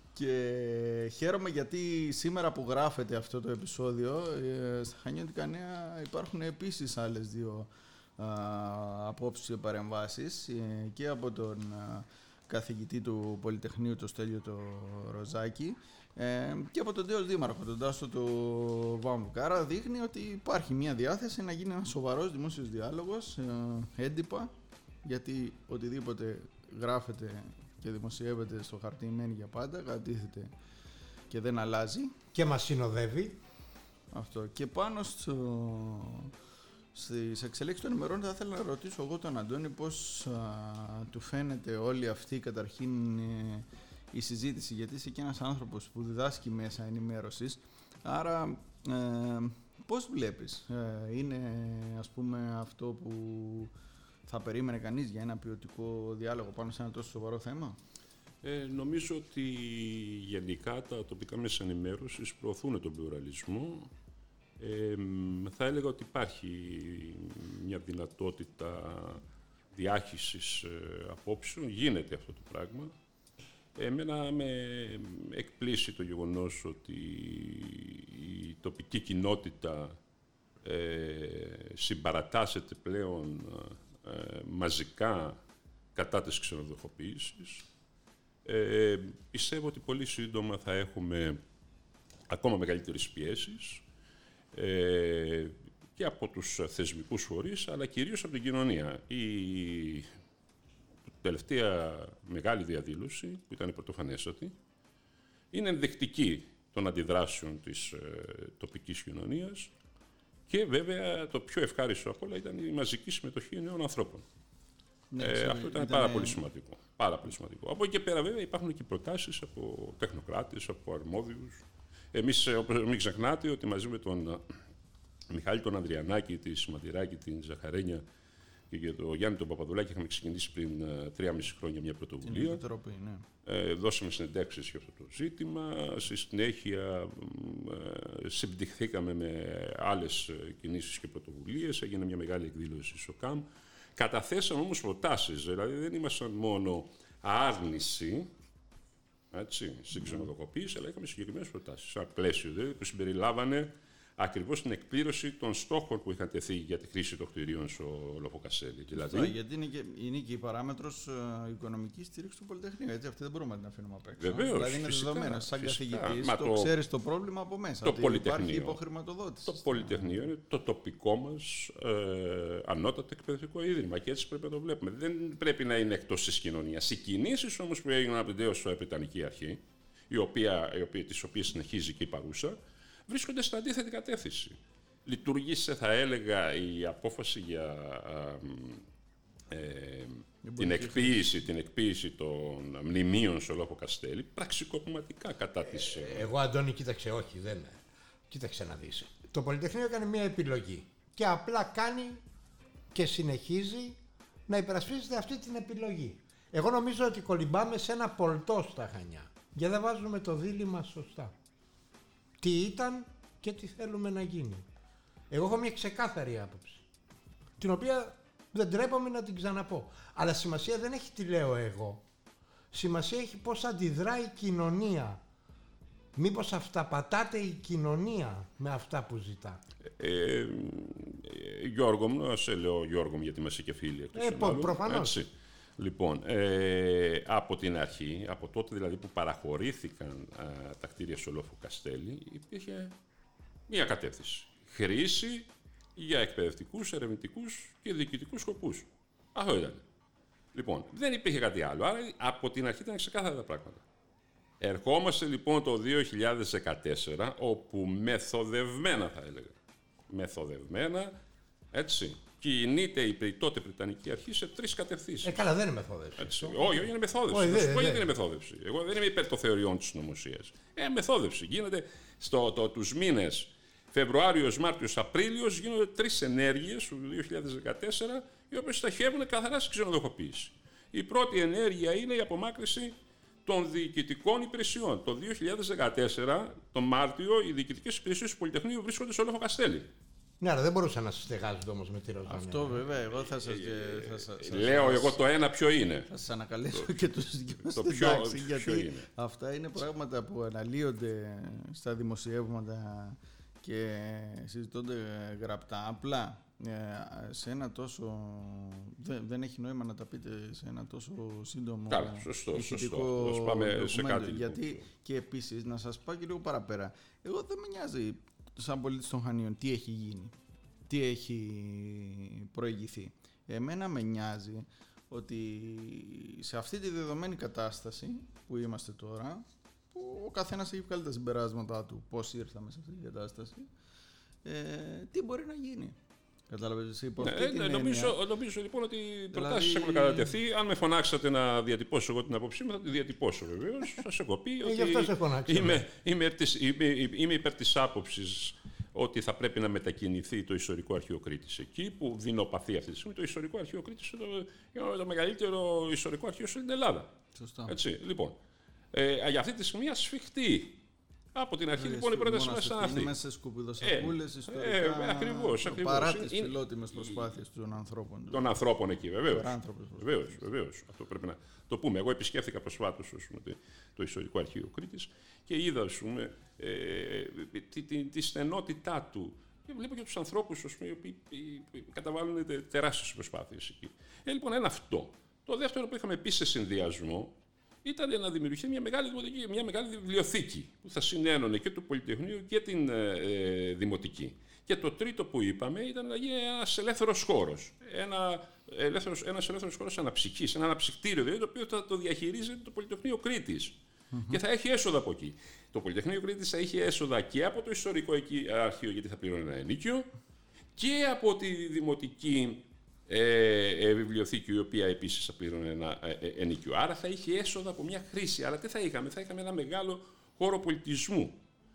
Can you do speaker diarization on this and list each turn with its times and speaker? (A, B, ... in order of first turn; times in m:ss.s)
0:00.2-0:24.5 A
0:25.0-0:30.5 A
0:31.3-0:32.2 A
0:32.3-0:33.4 B
0:34.1-0:36.3 A
0:36.9-0:53.7 A
0:54.3-0:57.8 A
0:58.4-1:03.9 C
1:04.6-1:13.0 C
1:13.8-1:20.0 C
1:20.6-1:25.4 C
1:26.0-1:27.6 C
1:28.4-1:31.4 C
1:32.3-1:33.8 C
1:34.5-1:40.1 C
1:41.1-1:44.5 C
1:45.5-1:49.7 C
1:50.5-1:54.2 C
1:55.1-1:56.4 A
1:55.2-2:04.6 C
2:05.3-2:08.0 C
2:08.7-2:12.6 C
2:12.2-2:13.3 A
2:13.4-2:23.4 C
2:24.0-2:28.3 C
2:29.3-2:39.4 C
2:38.9-2:50.3 A
2:44.2-2:46.7 C
2:47.8-2:48.8 C
2:49.5-3:08.8 C
3:09.5-3:16.3 C
3:10.4-3:11.3 A
3:15.6-3:22.2 B
3:22.9-3:31.3 B
3:32.4-3:34.6 B
3:35.3-3:36.8 B
3:37.6-3:42.0 B
3:42.7-3:45.2 B
3:46.2-3:49.6 B
3:50.0-4:03.0 C
3:54.2-3:55.2 B
4:03.7-4:09.8 C
4:10.5-4:13.8 C
4:14.6-4:19.6 C
4:20.1-4:21.1 C
4:21.7-4:25.4 C
4:25.2-4:28.1 B
4:26.2-4:42.9 C
4:43.4-4:49.9 C
4:50.4-4:52.8 B
4:52.3-4:55.2 A
4:53.1-4:56.1 C
4:56.1-5:20.3 A
4:57.7-4:59.1 C
5:11.9-5:14.8 C
5:20.9-5:33.7 A
5:34.4-5:36.0 A
5:36.5-5:38.2 A
5:37.2-5:57.2 C
5:39.3-5:40.4 A
5:44.6-5:45.8 B
5:57.4-5:57.8 A
5:57.7-5:58.4 C
5:58.9-6:00.8 C
6:01.4-6:03.2 C
6:01.8-6:08.6 A
6:03.8-6:07.2 C
6:08.3-6:43.8 C
6:09.3-6:10.4 A
6:44.1-6:44.4 A
6:44.3-6:50.1 C
6:50.8-7:01.4 C